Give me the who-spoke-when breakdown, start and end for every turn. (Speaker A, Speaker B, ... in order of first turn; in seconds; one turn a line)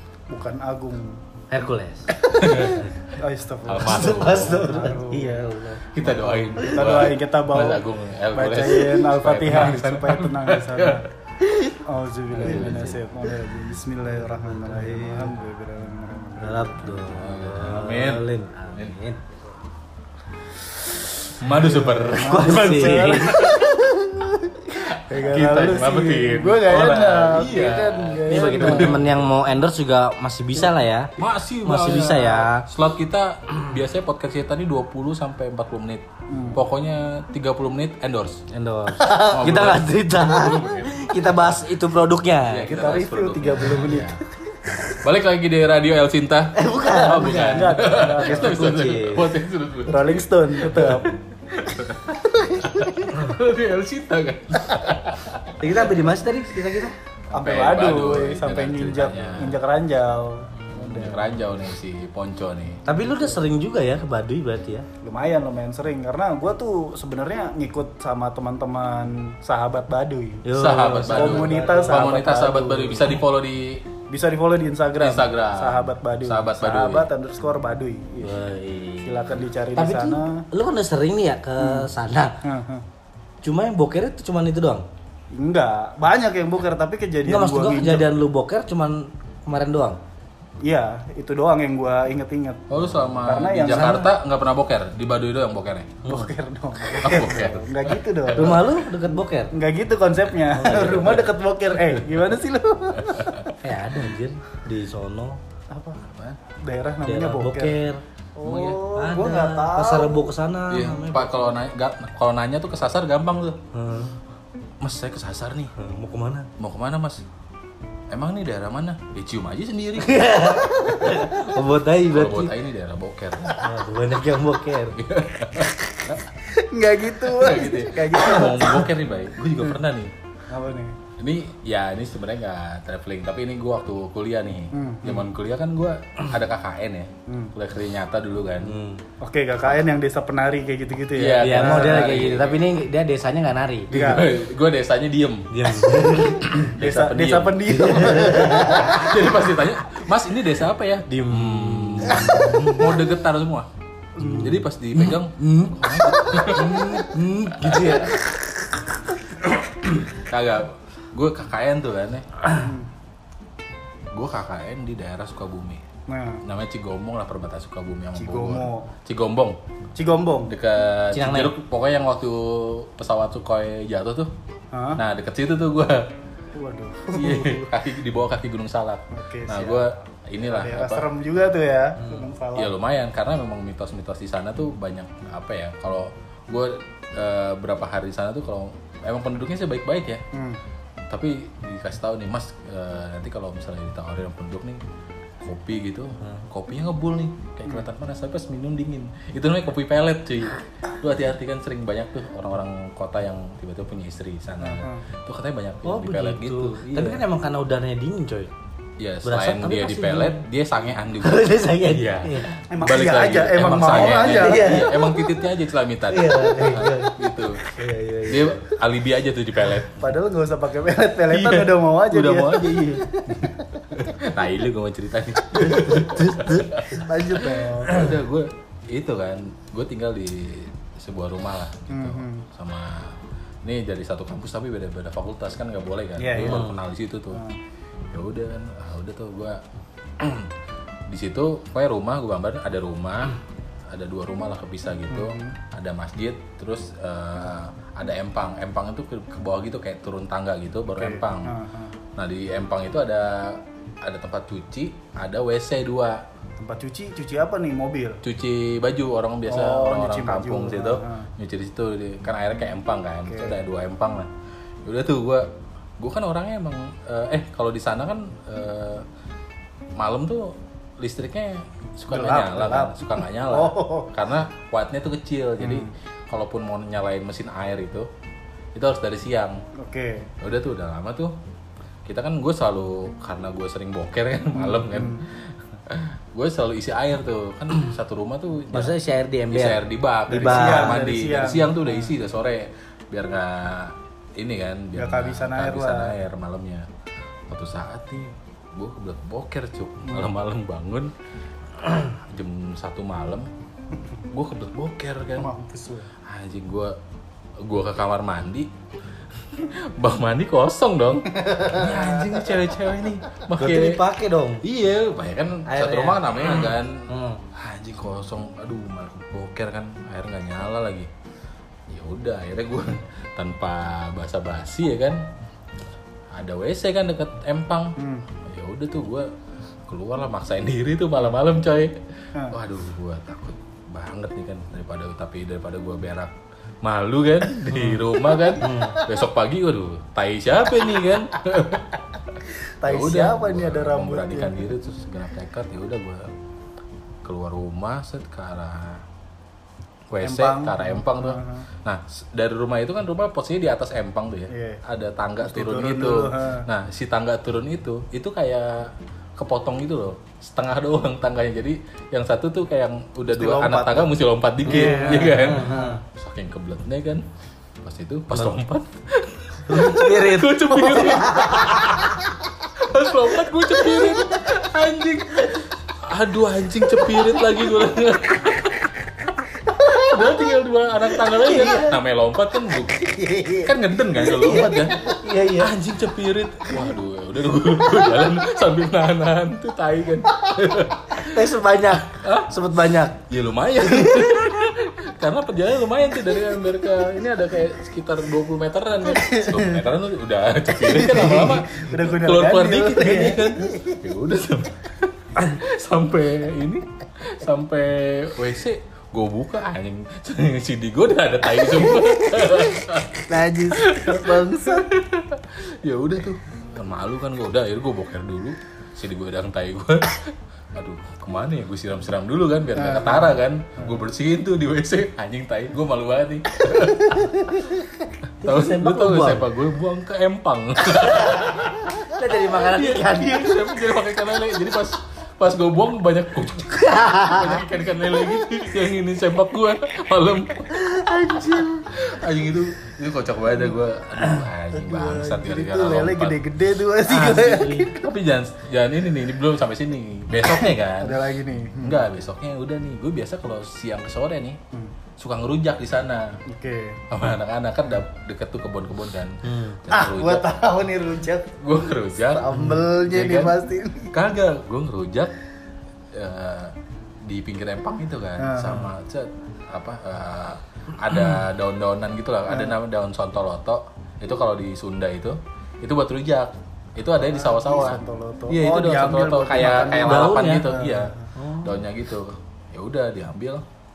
Speaker A: 0.3-1.2
Speaker B: 1.5-2.9
Speaker A: 2.2-5.4
Speaker C: 2.3-2.9
Speaker C: 3.6-4.8
Speaker B: 3.8-6.9
Speaker C: 5.9-11.1
Speaker A: 6.6-11.1
Speaker A: 11.8-17.1
Speaker C: 12.4-13.0
Speaker B: 12.4-12.8
Speaker B: 14.4-15.4
Speaker B: 16.4-19.2
Speaker C: 17.1-19.0
Speaker C: 21.2-23.8
Speaker A: 21.4-29.1
Speaker B: 22.2-23.4
Speaker C: 24.8-29.1
Speaker B: 28.3-32.6
Speaker C: 31.2-38.4
Speaker A: 36.3-36.6
Speaker B: 38.5-42.8
Speaker C: 39.0-41.7
Speaker C: 42.4-44.2
Speaker A: 42.7-44.8
Speaker C: 44.9-55.6
Speaker B: 46.5-49.3
Speaker A: 46.9-48.8
Speaker A: 49.9-51.1
Speaker B: 55.6-57.0
Speaker C: 57.3-59.6
Speaker A: 57.3-61.3
Speaker C: 60.7-62.8
Speaker A: 62.9-63.4
Speaker B: 62.9-64.9
Speaker A: 65.0-70.5
Speaker B: 70.5-72.3
Speaker C: 70.5-73.8
Speaker A: 71.1-73.2
Speaker A: 74.1-78.5
Speaker C: 75.0-77.1
Speaker B: 78.2-82.4
Speaker A: 79.0-80.5
Speaker A: 81.6-81.9
Speaker A: 82.4-82.8
Speaker B: 83.4-84.9
Speaker A: 85.3-88.1
Speaker B: 87.3-90.0
Speaker A: 90.6-94.1
Speaker C: 92.7-96.0
Speaker B: 93.4-94.1
Speaker A: 96.0-103.5
Speaker C: 96.9-98.7
Speaker B: 98.3-99.5
Speaker B: 100.5-101.3
Speaker C: 103.0-103.5
Speaker B: 103.6-105.4
Speaker A: 105.7-107.8
Speaker C: 106.0-106.4
Speaker B: 107.0-108.0
Speaker A: 108.4-110.3
Speaker C: 108.4-108.9
Speaker B: 109.0-111.5
Speaker C: 110.7-113.6
Speaker B: 113.7-114.1
Speaker C: 114.8-115.7
Speaker B: 115.8-116.5
Speaker C: 116.6-117.2
Speaker C: 118.1-123.7
Speaker B: 120.0-122.5
Speaker B: 123.6-125.0
Speaker C: 124.9-126.2
Speaker A: 126.3-128.9
Speaker C: 127.3-130.1
Speaker A: 130.5-131.0
Speaker C: 131.2-138.7
Speaker A: 134.7-135.3
Speaker A: 137.3-137.5
Speaker B: 138.6-139.0
Speaker A: 139.2-142.2
Speaker C: 141.2-142.6
Speaker B: 141.4-144.2
Speaker A: 143.9-144.3
Speaker C: 143.9-145.5
Speaker B: 145.5-146.7
Speaker A: 146.4-149.2
Speaker C: 146.6-148.1
Speaker B: 147.7-149.1
Speaker C: 148.6-153.7
Speaker B: 151.1-153.0
Speaker A: 154.2-154.5
Speaker B: 154.2-158.2
Speaker C: 154.3-158.1
Speaker C: 160.1-162.3
Speaker A: 162.5-162.9
Speaker C: 164.1-165.8
Speaker A: 166.1-166.4
Speaker C: 166.4-169.6
Speaker A: 168.2-168.9
Speaker A: 169.9-170.6
Speaker C: 170.5-174.3
Speaker B: 171.1-171.5
Speaker A: 174.7-175.0
Speaker C: 175.0-176.1
Speaker A: 176.5-177.7
Speaker C: 177.1-181.1
Speaker A: 179.1-179.9
Speaker A: 180.4-182.7
Speaker B: 182.0-182.2
Speaker C: 182.6-190.2
Speaker A: 190.3-190.6
Speaker C: 191.1-194.8
Speaker C: 195.4-207.2
Speaker A: 204.6-205.0
Speaker B: 205.9-208.5
Speaker C: 209.0-217.7
Speaker B: 209.2-210.4
Speaker B: 211.2-212.5
Speaker A: 212.7-215.0
Speaker B: 213.9-214.9
Speaker B: 216.1-218.7
Speaker C: 218.3-220.0
Speaker A: 219.9-223.8
Speaker C: 221.3-237.4
Speaker B: 225.5-226.8
Speaker A: 226.9-228.1
Speaker A: 231.9-232.5
Speaker A: 236.2-236.7
Speaker B: 236.4-236.7
Speaker A: 237.3-237.6
Speaker C: 238.1-239.6
Speaker C: 240.2-240.5
Speaker C: 241.1-251.5
Speaker A: 245.1-245.6
Speaker A: 250.9-251.9
Speaker C: 252.2-256.2
Speaker A: 256.6-258.2
Speaker C: 258.2-264.3
Speaker A: 259.5-261.3
Speaker A: 263.3-263.6
Speaker C: 264.8-265.5
Speaker C: 266.0-269.1
Speaker C: 270.0-278.1
Speaker A: 272.1-274.1
Speaker A: 275.6-275.9
Speaker C: 278.7-279.6
Speaker A: 279.7-280.3
Speaker C: 280.4-281.3
Speaker C: 282.1-289.0
Speaker A: 284.6-285.2
Speaker B: 288.7-291.0
Speaker C: 289.5-296.9
Speaker A: 290.3-292.1
Speaker A: 294.9-296.2
Speaker C: 297.5-301.1
Speaker C: 301.8-303.5
Speaker C: 304.3-305.5
Speaker A: 305.4-306.1
Speaker C: 306.2-306.9
Speaker C: 307.6-308.7
Speaker C: 309.3-314.0
Speaker A: 311.3-312.5
Speaker B: 313.6-314.6
Speaker C: 314.6-321.1
Speaker B: 315.7-317.4
Speaker C: 321.9-325.2
Speaker C: 326.3-329.3
Speaker A: 328.0-328.3
Speaker C: 329.9-342.0
Speaker B: 337.7-338.0
Speaker B: 338.6-339.1
Speaker A: 342.8-344.7
Speaker C: 342.8-346.3
Speaker C: 347.2-349.0
Speaker C: 350.1-367.2
Speaker A: 350.2-351.7
Speaker A: 354.5-354.8
Speaker A: 355.4-356.7
Speaker A: 363.3-364.1
Speaker A: 364.6-365.9
Speaker B: 364.7-366.0
Speaker C: 367.8-391.5
Speaker B: 369.7-372.2
Speaker B: 381.2-381.9
Speaker B: 382.9-385.7
Speaker B: 391.1-393.2
Speaker C: 392.1-392.5
Speaker C: 393.3-427.6
Speaker B: 393.9-394.3
Speaker A: 400.8-403.9
Speaker A: 413.3-414.7
Speaker B: 413.3-414.8
Speaker A: 422.8-423.9
Speaker B: 427.1-427.6
Speaker B: 428.4-429.4
Speaker C: 428.4-440.8
Speaker B: 431.2-431.4
Speaker B: 432.0-433.7
Speaker B: 436.7-437.6
Speaker B: 440.7-441.8
Speaker C: 441.4-446.4
Speaker A: 444.7-448.0
Speaker C: 447.1-451.2
Speaker B: 447.2-447.6
Speaker A: 450.4-452.1
Speaker C: 451.8-454.6
Speaker C: 455.2-456.4
Speaker A: 456.4-457.0
Speaker C: 457.1-460.5
Speaker B: 459.4-459.8
Speaker A: 459.9-461.6
Speaker C: 461.6-463.6
Speaker A: 462.2-464.1
Speaker C: 464.1-465.3
Speaker C: 466.1-483.6
Speaker A: 468.4-468.9
Speaker A: 472.5-472.8
Speaker A: 477.2-481.2
Speaker B: 480.0-480.7
Speaker B: 481.4-481.8